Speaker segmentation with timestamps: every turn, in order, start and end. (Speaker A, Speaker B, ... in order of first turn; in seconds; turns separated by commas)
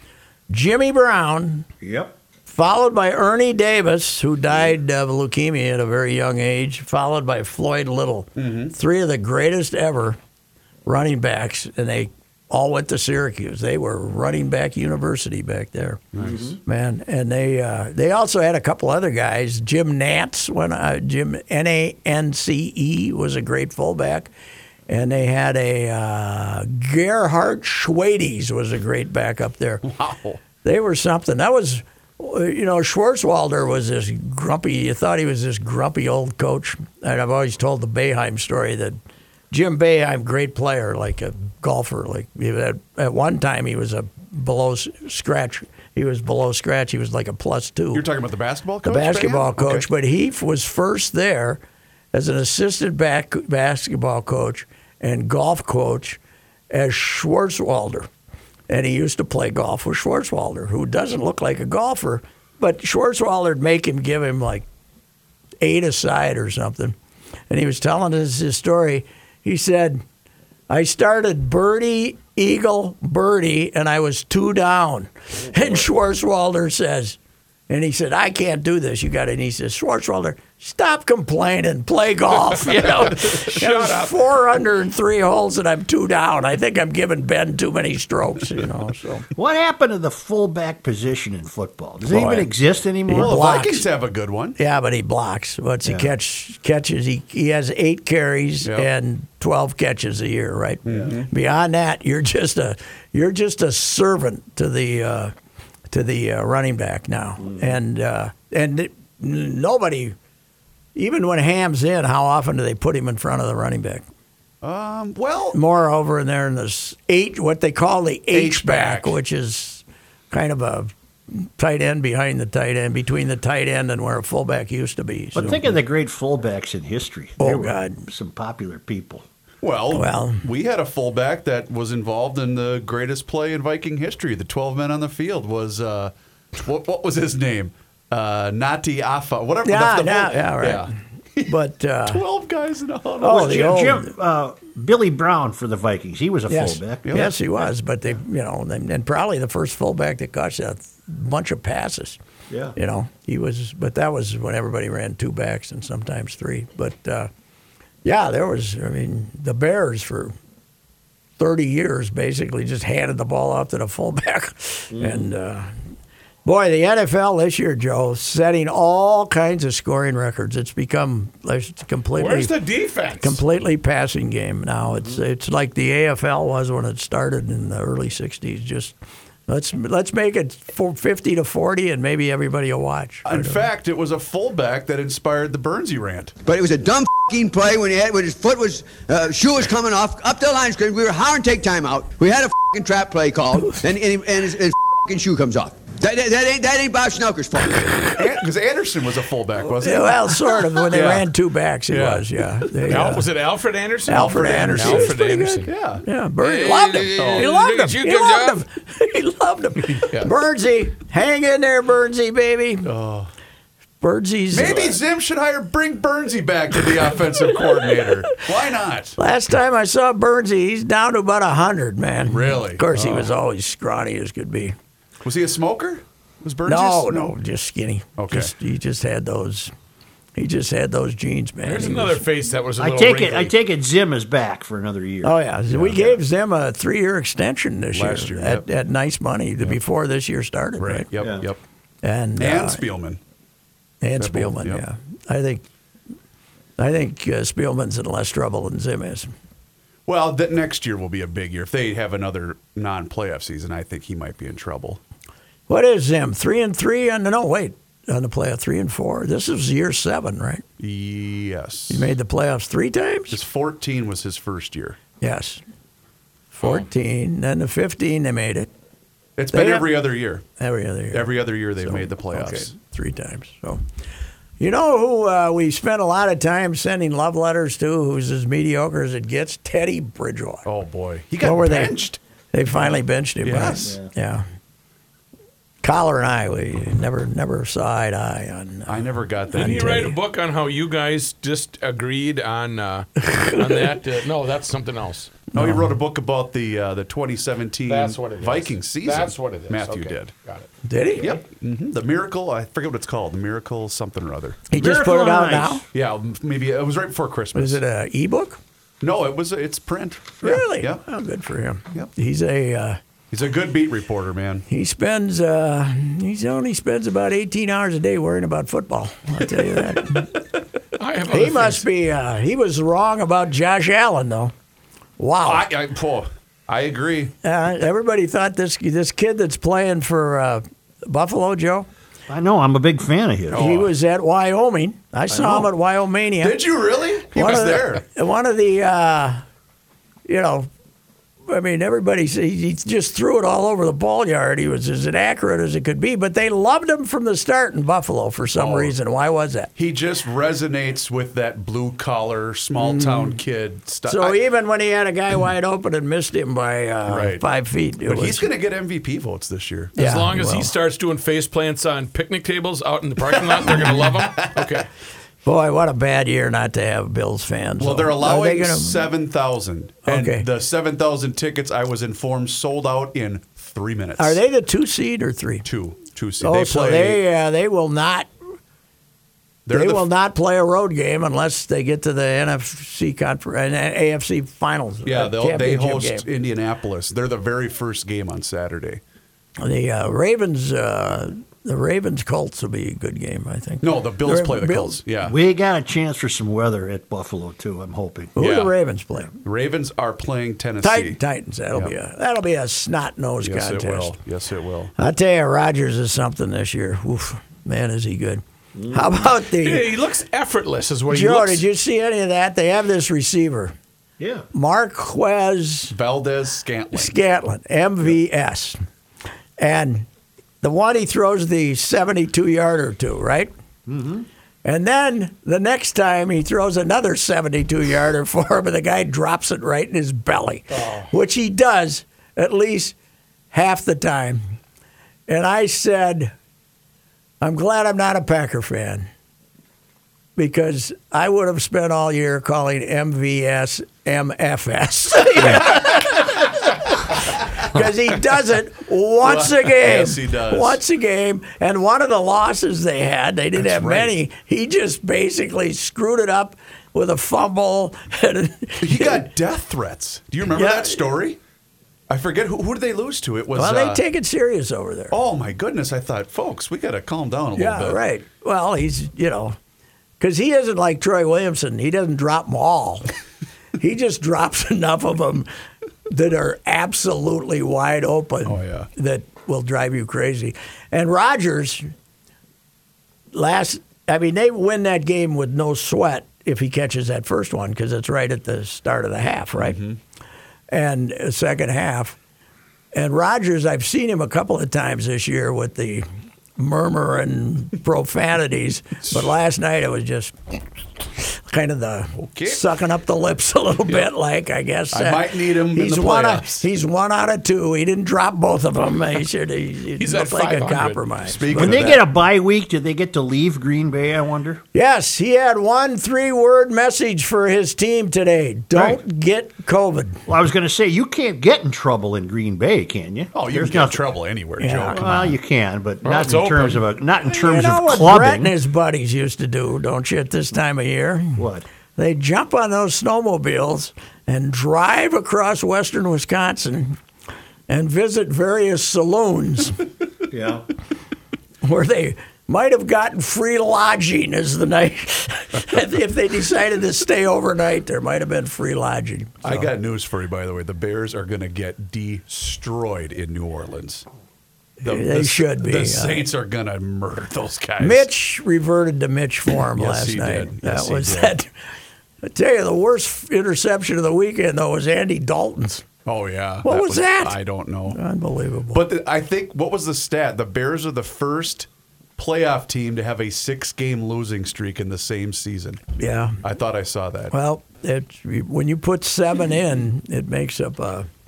Speaker A: 0.5-1.7, Speaker B: 1.8-2.1, Speaker A: 2.5-10.2, Speaker C: 8.4-8.7, Speaker A: 10.9-24.3, Speaker C: 16.1-16.5, Speaker B: 16.2-16.6, Speaker A: 24.9-29.8, Speaker C: 29.8-30.4, Speaker A: 30.6-39.0, Speaker A: 39.5-48.0, Speaker C: 47.9-49.9, Speaker A: 48.8-51.6, Speaker A: 52.1-56.2, Speaker A: 56.7-58.1, Speaker A: 58.7-64.7, Speaker A: 65.6-67.0, Speaker A: 67.5-70.0, Speaker A: 70.7-77.2, Speaker B: 75.4-75.9, Speaker A: 77.7-89.3, Speaker D: 82.5-84.1, Speaker B: 89.3-93.6, Speaker C: 92.1-92.5, Speaker A: 93.1-93.8, Speaker C: 93.1-94.6, Speaker A: 94.6-105.3, Speaker B: 95.8-96.1, Speaker C: 98.6-98.9, Speaker C: 100.8-101.3, Speaker B: 100.9-101.2, Speaker A: 105.9-110.2, Speaker B: 107.4-107.8, Speaker A: 111.0-114.0, Speaker C: 114.6-115.6, Speaker A: 115.5-125.8, Speaker C: 118.3-119.2, Speaker B: 125.3-129.2, Speaker A: 127.4-128.1, Speaker C: 129.6-141.5, Speaker A: 129.9-130.4, Speaker A: 139.7-140.9, Speaker A: 141.4-142.2, Speaker C: 142.1-143.7, Speaker A: 143.2-144.1, Speaker B: 143.2-147.3, Speaker A: 146.5-152.2, Speaker C: 147.0-147.3, Speaker B: 152.5-152.8, Speaker A: 152.8-157.3, Speaker A: 158.1-160.3, Speaker A: 161.4-165.7, Speaker B: 164.9-165.3, Speaker A: 166.4-172.5, Speaker D: 172.2-173.4, Speaker A: 173.2-179.0, Speaker A: 179.5-183.7, Speaker C: 183.2-186.3, Speaker E: 186.4-198.1, Speaker C: 198.2-201.3, Speaker A: 199.8-203.3, Speaker C: 201.9-202.2, Speaker D: 202.9-205.7, Speaker A: 204.1-212.9, Speaker C: 204.2-205.2, Speaker C: 205.7-206.0, Speaker D: 206.4-208.6, Speaker C: 207.2-207.5, Speaker C: 212.9-213.3, Speaker A: 214.0-215.0, Speaker C: 214.5-219.2, Speaker A: 217.8-218.1, Speaker A: 219.2-224.8, Speaker C: 222.2-223.3, Speaker C: 225.2-227.3, Speaker A: 226.7-229.7, Speaker C: 228.2-228.5, Speaker A: 230.4-232.2, Speaker D: 231.6-233.5, Speaker B: 232.8-235.4, Speaker A: 235.2-241.1, Speaker C: 235.7-236.2, Speaker C: 237.9-238.7, Speaker C: 240.8-241.6, Speaker B: 241.2-241.5, Speaker A: 242.0-242.8, Speaker C: 242.4-243.2, Speaker A: 244.0-245.7, Speaker C: 244.2-244.8, Speaker A: 246.8-249.3, Speaker C: 250.1-255.0, Speaker A: 255.7-260.6, Speaker C: 260.8-262.1, Speaker A: 261.9-263.4, Speaker C: 263.3-265.0, Speaker A: 265.2-265.6, Speaker A: 266.5-268.7, Speaker C: 269.4-270.4, Speaker A: 269.5-269.9, Speaker A: 270.6-273.8, Speaker C: 271.1-272.7, Speaker A: 274.6-280.6, Speaker C: 280.7-282.2, Speaker A: 281.4-282.0, Speaker A: 282.5-284.5, Speaker C: 283.4-284.0, Speaker B: 283.8-284.1, Speaker A: 285.8-290.2, Speaker C: 288.9-290.1, Speaker D: 289.5-295.4, Speaker A: 293.2-293.6, Speaker A: 295.5-295.9, Speaker C: 295.5-300.3, Speaker D: 297.9-300.7, Speaker A: 300.9-301.3, Speaker C: 301.2-304.6, Speaker A: 304.7-305.8, Speaker B: 304.8-305.9, Speaker C: 305.9-307.8, Speaker A: 307.6-308.6, Speaker C: 309.0-311.0, Speaker A: 310.4-313.0, Speaker C: 313.3-314.6, Speaker A: 314.7-320.3, Speaker D: 321.0-321.9, Speaker A: 321.3-324.5, Speaker A: 325.2-325.6, Speaker C: 325.4-327.3, Speaker A: 327.4-331.9, Speaker B: 332.3-333.7, Speaker C: 333.5-333.9, Speaker A: 333.5-336.6, Speaker B: 335.3-335.7, Speaker C: 335.3-335.6, Speaker C: 336.4-338.0, Speaker A: 337.3-339.4, Speaker A: 340.3-340.7, Speaker A: 341.5-349.7, Speaker C: 348.5-348.9, Speaker C: 349.8-354.4, Speaker A: 352.8-353.4, Speaker A: 354.1-358.5, Speaker C: 357.1-357.4, Speaker C: 358.1-359.9, Speaker D: 359.9-364.9, Speaker A: 360.0-360.7, Speaker C: 363.6-364.6, Speaker A: 365.4-369.1, Speaker C: 367.8-374.4, Speaker A: 370.1-370.5, Speaker A: 374.2-375.7, Speaker C: 375.7-377.2, Speaker A: 376.4-378.3, Speaker C: 379.7-380.1, Speaker A: 379.7-386.3, Speaker C: 385.1-389.0, Speaker A: 389.6-395.0, Speaker C: 393.8-395.4, Speaker B: 395.2-398.4, Speaker A: 398.4-399.3, Speaker C: 398.4-398.7, Speaker C: 399.4-401.2, Speaker A: 400.8-404.1, Speaker C: 403.4-404.9, Speaker A: 405.0-409.9, Speaker B: 408.8-409.2, Speaker D: 409.6-411.7, Speaker A: 411.1-413.7, Speaker B: 414.2-414.4, Speaker A: 414.5-415.9, Speaker C: 415.9-417.2, Speaker A: 416.9-418.8, Speaker A: 419.6-420.1, Speaker A: 420.6-423.5, Speaker B: 423.9-424.3, Speaker A: 424.6-433.0, Speaker A: 433.5-434.4, Speaker A: 435.3-436.3, Speaker A: 437.4-439.1, Speaker A: 440.4-446.5, Speaker B: 445.4-445.7, Speaker A: 447.6-459.3, Speaker C: 449.2-450.8, Speaker C: 453.6-454.1, Speaker C: 458.8-461.4, Speaker A: 460.5-461.0, Speaker C: 462.1-464.0, Speaker A: 463.6-465.2, Speaker C: 465.1-468.0, Speaker A: 467.6-469.6, Speaker A: 470.2-473.1, Speaker A: 473.8-475.5, Speaker A: 476.1-481.9, Speaker C: 478.4-478.9, Speaker A: 483.3-489.8, Speaker C: 489.6-490.0, Speaker A: 490.7-492.2, Speaker A: 492.9-496.1, Speaker A: 496.6-500.4, Speaker A: 501.2-511.8, Speaker C: 502.2-502.6, Speaker C: 504.9-506.7, Speaker D: 510.0-511.8, Speaker C: 511.4-512.0, Speaker B: 511.5-514.6, Speaker A: 514.7-520.2, Speaker B: 520.3-524.1, Speaker C: 523.3-525.2, Speaker A: 524.6-525.3, Speaker B: 524.9-528.5, Speaker D: 526.0-526.8, Speaker A: 527.3-531.4, Speaker B: 531.4-531.6, Speaker A: 532.0-537.0, Speaker A: 537.7-539.8, Speaker B: 540.3-540.7, Speaker A: 541.6-549.7, Speaker C: 549.4-554.1, Speaker A: 554.8-556.3, Speaker C: 554.8-558.1, Speaker A: 557.8-561.5, Speaker C: 559.5-561.4, Speaker A: 562.2-565.9, Speaker C: 566.0-568.0, Speaker A: 566.6-568.8, Speaker C: 568.7-575.8, Speaker A: 576.0-576.4, Speaker C: 576.4-577.3, Speaker A: 577.3-581.1